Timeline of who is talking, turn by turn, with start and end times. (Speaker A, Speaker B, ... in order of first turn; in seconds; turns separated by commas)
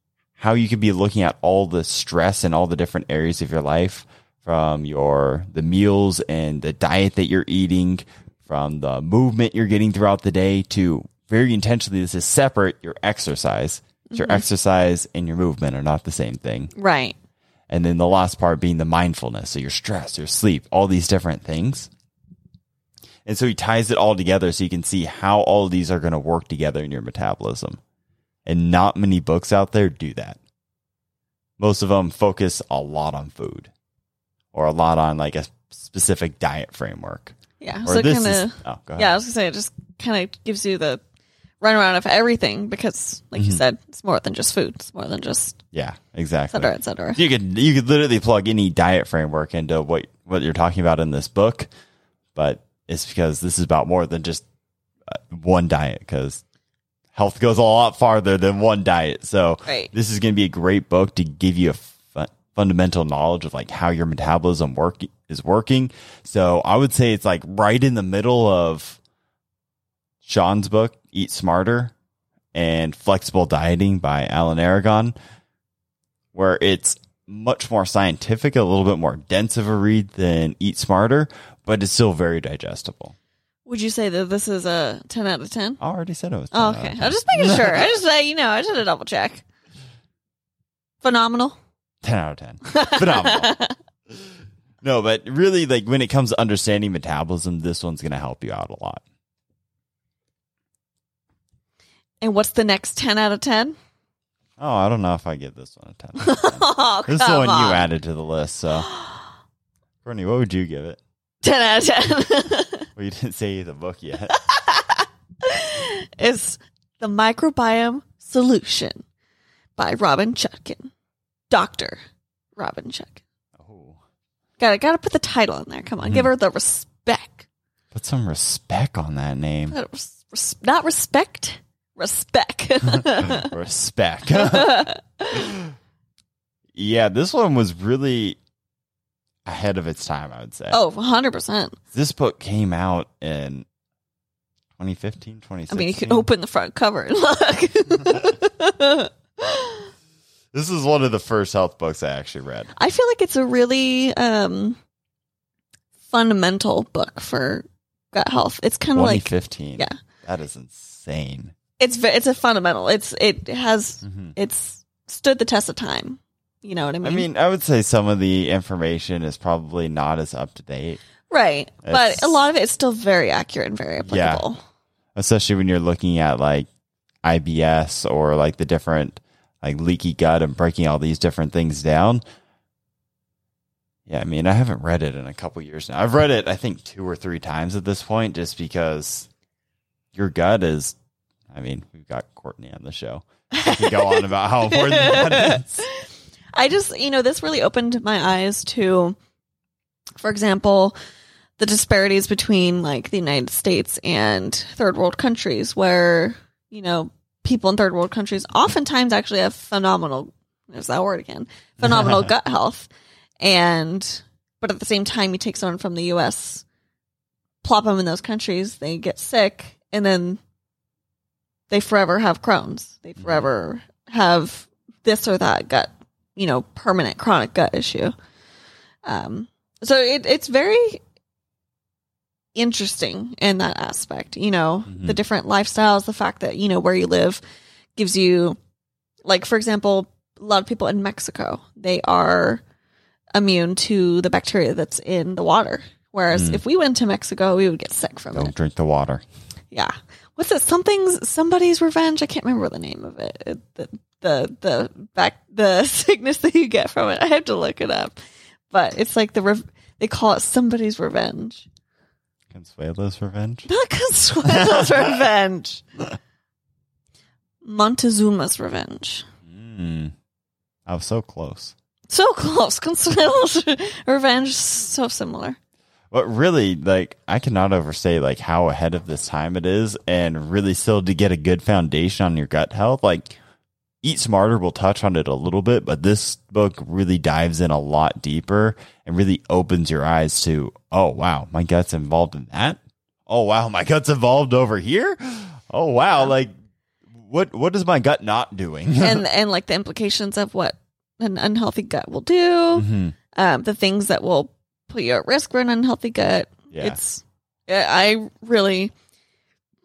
Speaker A: 0.4-16.7, Speaker B: 14.1-14.4, Speaker B: 16.8-17.2, Speaker A: 17.7-21.9, Speaker A: 23.3-27.8, Speaker A: 28.5-30.4, Speaker A: 31.6-33.7, Speaker A: 34.5-39.1, Speaker B: 37.6-41.0, Speaker B: 41.6-45.6, Speaker A: 43.4-43.6, Speaker A: 45.7-51.7, Speaker B: 46.5-47.2, Speaker A: 52.4-54.4, Speaker A: 55.1-56.4, Speaker A: 57.1-69.0, Speaker B: 59.7-59.9, Speaker A: 70.2-71.9, Speaker A: 72.5-75.2, Speaker A: 76.3-83.2, Speaker B: 83.7-85.8, Speaker A: 85.8-87.9, Speaker B: 86.5-89.4, Speaker B: 91.0-91.6, Speaker A: 92.0-93.6, Speaker B: 92.7-93.8, Speaker A: 94.8-99.0, Speaker B: 102.2-103.8, Speaker A: 104.6-108.9, Speaker B: 106.2-107.9, Speaker B: 108.9-109.2, Speaker A: 110.0-111.0, Speaker B: 111.4-112.9, Speaker A: 113.0-114.4, Speaker B: 114.3-119.0, Speaker B: 119.8-120.9, Speaker B: 121.5-122.0, Speaker B: 122.6-123.2, Speaker A: 123.6-124.0, Speaker B: 124.6-127.5, Speaker A: 126.0-126.3, Speaker A: 127.9-129.8, Speaker B: 129.7-133.5, Speaker A: 132.9-135.7, Speaker B: 134.3-135.5, Speaker A: 136.8-138.4, Speaker A: 139.5-140.8, Speaker B: 140.7-141.8, Speaker A: 141.9-143.7, Speaker A: 144.8-146.3, Speaker B: 145.7-149.9, Speaker A: 150.5-152.7, Speaker B: 152.8-154.8, Speaker B: 156.1-160.0, Speaker A: 158.9-161.5, Speaker B: 161.8-167.3, Speaker A: 164.0-164.3, Speaker A: 167.0-171.0, Speaker B: 171.3-174.6, Speaker A: 171.8-172.4, Speaker A: 174.0-174.5, Speaker A: 175.2-176.7, Speaker A: 177.2-182.2, Speaker A: 184.1-189.3, Speaker A: 190.1-191.0, Speaker A: 191.5-195.9, Speaker B: 193.5-199.2, Speaker B: 200.2-200.9, Speaker B: 201.6-216.6, Speaker A: 211.8-212.3, Speaker B: 217.6-220.4, Speaker B: 221.7-228.1, Speaker A: 223.2-223.5, Speaker B: 229.0-231.0, Speaker B: 232.6-237.4, Speaker A: 234.9-235.2, Speaker B: 238.0-238.6, Speaker B: 239.2-242.6, Speaker B: 243.3-248.5, Speaker A: 246.3-246.6, Speaker A: 248.3-249.2, Speaker B: 249.7-258.2, Speaker B: 258.7-261.7, Speaker A: 262.5-263.7, Speaker B: 263.7-265.8, Speaker B: 267.6-269.2, Speaker A: 269.5-270.1, Speaker A: 270.9-271.7, Speaker B: 272.1-275.6, Speaker A: 276.1-283.4, Speaker A: 284.0-296.5, Speaker A: 297.2-299.2, Speaker B: 299.0-308.9, Speaker A: 302.7-303.2, Speaker A: 306.7-307.0